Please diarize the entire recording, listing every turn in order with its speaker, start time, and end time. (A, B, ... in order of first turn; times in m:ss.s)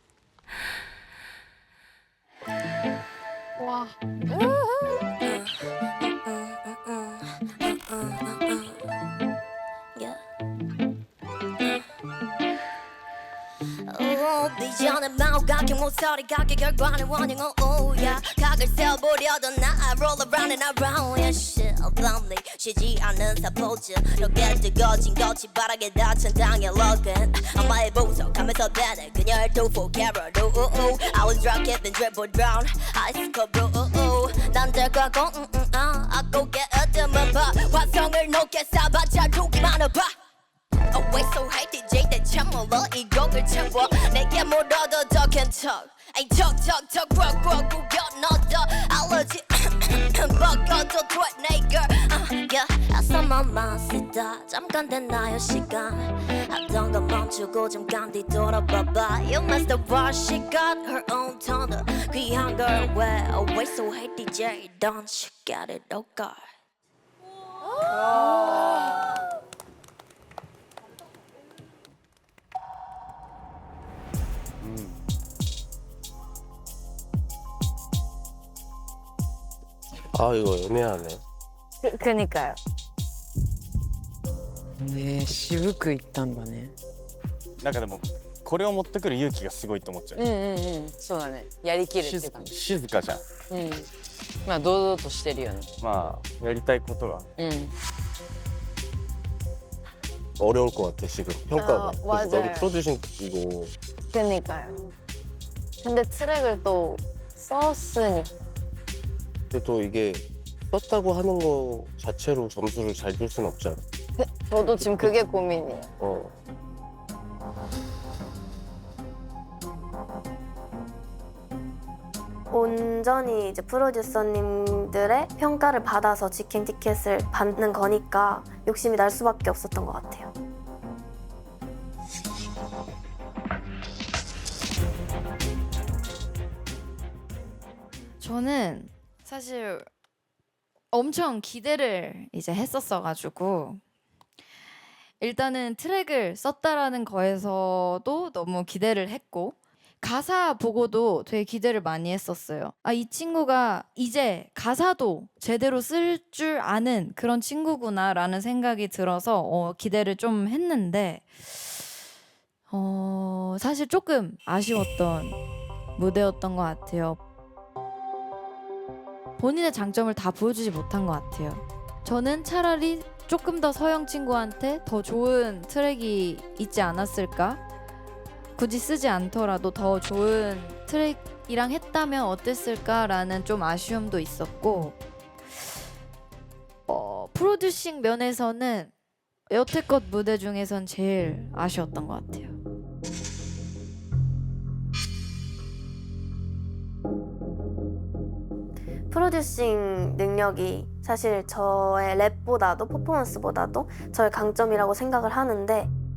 0:05.2-0:08.9 A
0:10.0-0:10.2 A
0:13.9-0:40.1 A
0:40.9-0:49.5 A
0:50.2-1:06.4 A
1:14.6-1:15.0 B
1:20.1-1:21.2 C
1:21.8-1:22.6 D
1:24.8-1:26.8 E
1:27.6-1:30.3 B
1:30.2-1:32.5 E
1:32.0-1:33.2 B
1:33.5-1:33.9 E
1:34.4-1:35.7 E
1:35.8-1:37.3 B
1:37.4-1:37.7 E
1:40.4-1:43.7 C
1:41.6-1:42.7 D
1:44.1-1:44.9 D
1:45.8-1:48.3 D
1:49.5-1:53.8 C
1:54.2-1:55.9 D
1:56.0-1:56.3 C
2:02.5-2:10.3 F
2:18.2-2:19.9 G
2:20.9-2:23.8 G
2:25.2-2:41.8 G
2:42.7-2:45.4 G
2:46.0-2:47.2 G
2:49.4-2:57.6 G
2:58.6-3:05.0 G
3:06.9-3:08.9 G
3:09.5-3:12.6 G
3:19.1-3:25.9 F